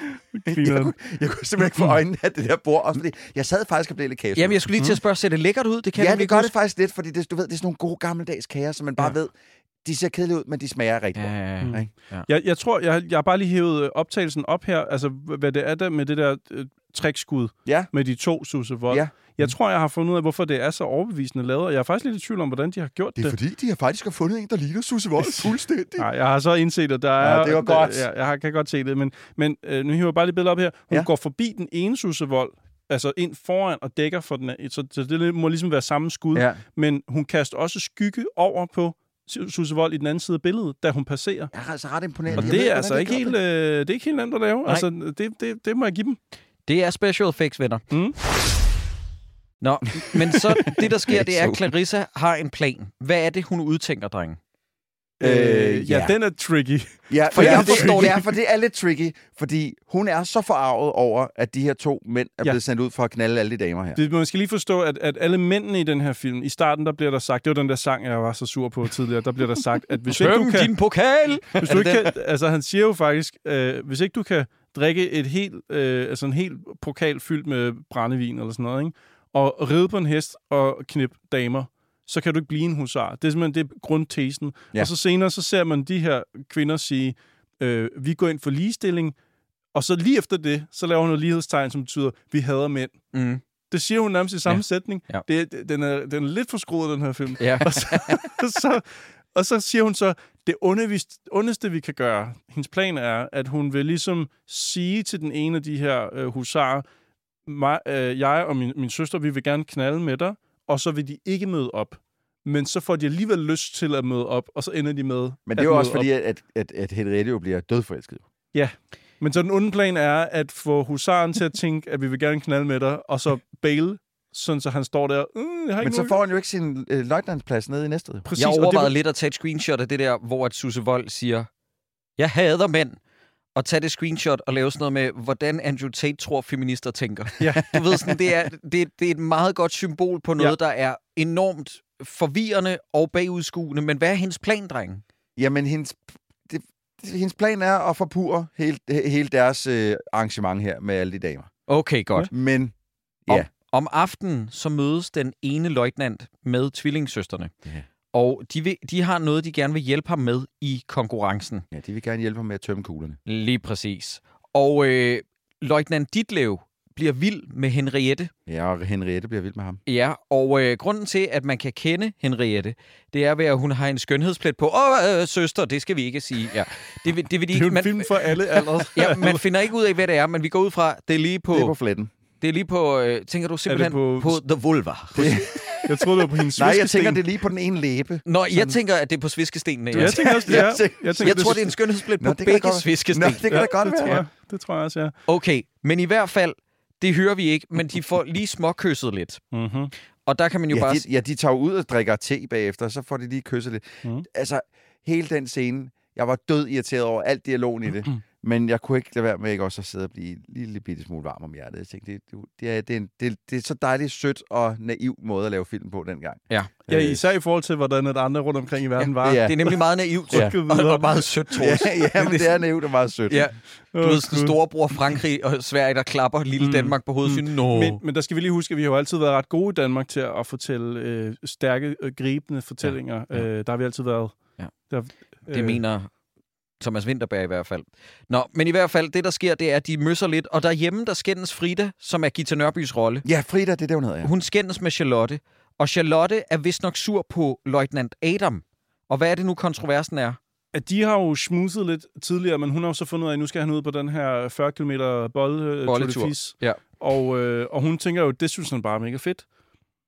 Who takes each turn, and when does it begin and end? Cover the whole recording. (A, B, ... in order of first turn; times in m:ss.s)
0:00.3-0:00.9 A
0:00.4-0:04.6 B
0:04.4-0:06.5 C
0:05.9-0:09.3 B
0:09.8-0:11.9 B
0:11.2-0:12.2 C
0:11.6-0:23.3 A
0:17.6-0:17.9 B
0:18.9-0:19.5 B
0:23.2-0:26.1 B
0:25.2-0:41.5 A
0:27.2-0:28.1 B
0:36.3-0:36.6 B
0:41.5-0:43.3 B
0:42.3-0:42.6 C
0:42.4-0:46.2 A
0:46.6-0:47.8 C
0:47.9-0:48.2 A
0:49.6-0:54.4 C
0:50.1-0:51.7 B
0:55.2-0:58.3 A
0:55.2-0:56.1 B
0:57.1-1:04.0 B
0:57.3-0:58.2 C
1:04.0-1:10.7 A
1:10.1-1:12.1 C
1:11.5-1:29.1 A
1:29.7-1:33.0 A
1:33.1-1:33.4 C
1:33.7-1:46.8 A
1:34.4-1:35.2 C
1:37.4-1:37.8 C
1:47.4-1:56.1 A
1:55.5-1:58.2 B
1:58.5-2:06.2 A
2:05.8-2:08.2 B
2:08.2-2:08.9 A
2:08.4-2:11.5 C
2:12.2-2:13.0 C
2:13.5-2:25.0 C
2:17.4-2:17.7 A
2:17.7-2:18.1 B
2:25.4-2:31.5 B
2:31.7-2:32.3 C
2:32.3-2:32.7 B
2:33.3-2:37.5 C
2:38.1-2:41.6 C
2:41.7-2:43.2 B
2:43.2-2:48.3 C
2:48.5-2:49.8 B
2:49.8-3:01.7 C
2:57.5-2:59.4 A
3:01.5-3:02.1 B
3:02.4-3:05.4 C
3:03.7-3:04.4 A
3:05.2-3:07.2 A
3:05.2-3:08.2 B
3:08.2-3:14.2 C
3:09.9-3:14.2 B
3:09.9-3:11.7 A
3:13.5-3:15.1 A
3:15.3-3:19.4 C
3:19.5-3:19.9 A
3:20.2-3:21.0 C
3:20.7-3:37.2 B
3:36.9-3:39.8 A
3:39.0-3:42.5 C
3:39.2-3:39.5 B
3:40.3-3:41.2 A
3:41.6-3:43.4 B
3:43.3-3:48.0 C
3:43.9-3:44.5 A
3:46.6-3:54.4 A
3:52.8-3:53.5 C
3:54.9-3:55.8 A
3:55.5-3:56.1 C
3:56.8-4:03.2 C
4:03.2-4:04.3 B
4:04.2-4:10.4 C
4:10.7-4:19.4 A
4:15.8-4:16.8 C